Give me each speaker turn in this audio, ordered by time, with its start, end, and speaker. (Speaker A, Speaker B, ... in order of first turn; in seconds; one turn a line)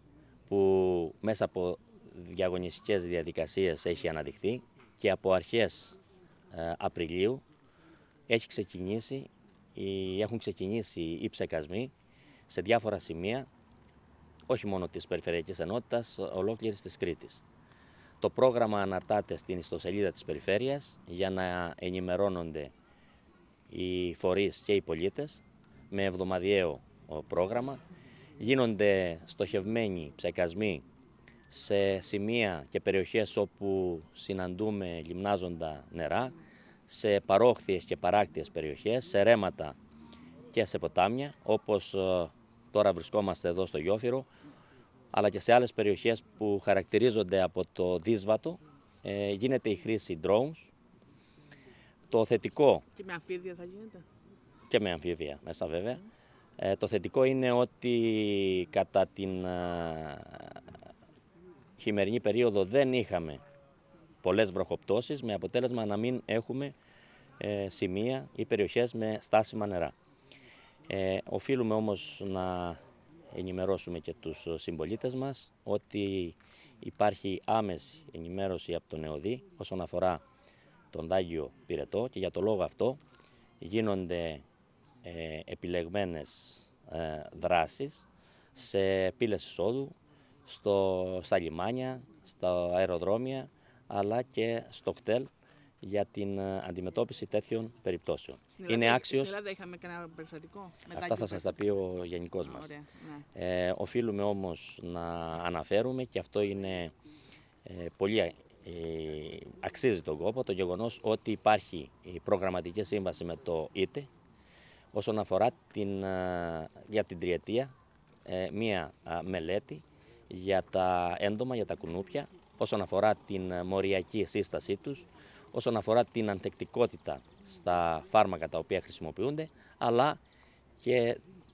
Speaker A: 0.5-6.0
Speaker A: 6.5-7.4
Speaker A: 8.3-11.9
Speaker A: 12.5-13.5
Speaker A: 14.5-17.4
Speaker A: 18.2-22.7
Speaker A: 23.7-27.8
Speaker A: 28.4-30.8
Speaker A: 31.5-36.4
Speaker A: 36.9-39.8
Speaker A: 40.5-44.3
Speaker A: 45.1-50.7
Speaker A: 52.1-52.9
Speaker B: 53.0-54.0
Speaker A: 54.7-56.0
Speaker A: 56.6-60.6
Speaker A: 61.8-63.4
Speaker A: 64.2-66.8
Speaker A: 67.4-70.0
Speaker A: 70.9-72.8
Speaker A: 73.3-80.2
Speaker A: 80.9-83.0
Speaker A: 83.6-84.4
Speaker A: 85.0-90.0
Speaker A: 90.5-95.3
Speaker A: 95.8-99.4
Speaker B: 98.5-101.6
Speaker A: 100.9-102.7
Speaker B: 102.4-103.2
Speaker A: 103.3-106.9
Speaker A: 107.7-114.1
Speaker A: 114.9-117.7
Speaker A: 118.2-130.2
Speaker A: 130.8-131.2